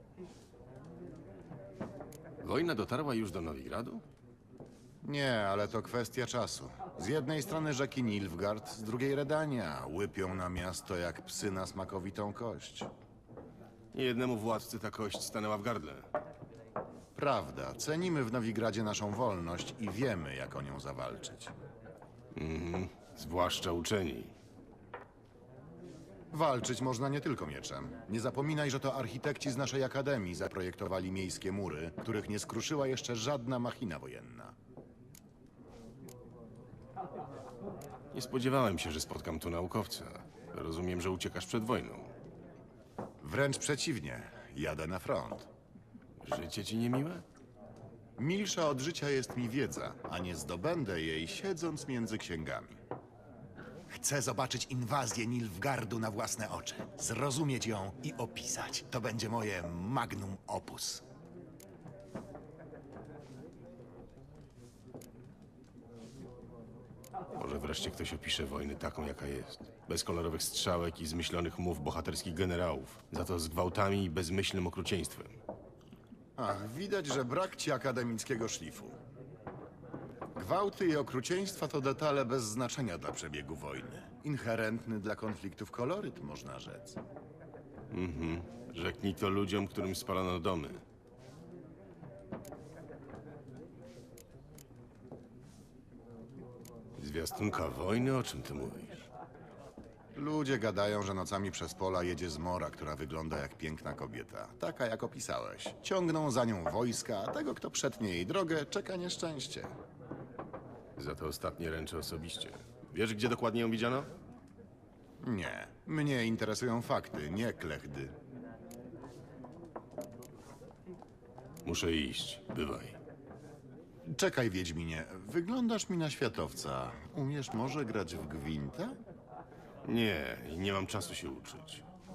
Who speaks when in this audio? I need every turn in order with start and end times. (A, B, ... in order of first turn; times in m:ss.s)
0:02.4-0:04.0 A
0:05.0-0:12.9 B
0:13.9-0:16.0 A
0:17.2-0:21.5 B
0:22.3-0:24.3 A
0:26.3-0:34.5 B
0:38.1-0:42.1 A
0:43.2-0:45.5 B
0:46.2-0:47.2 A
0:48.2-0:52.8 B
0:53.9-1:01.0 B
1:07.4-1:15.4 A
1:16.4-1:19.0 B
1:20.3-1:27.0 B
1:27.9-1:30.8 A
1:37.0-1:39.1 A
1:40.1-1:49.7 B
1:51.0-1:54.1 A
1:55.2-1:58.1 B
2:01.6-2:03.0 A
2:04.0-2:09.0 B
2:09.8-2:11.8 A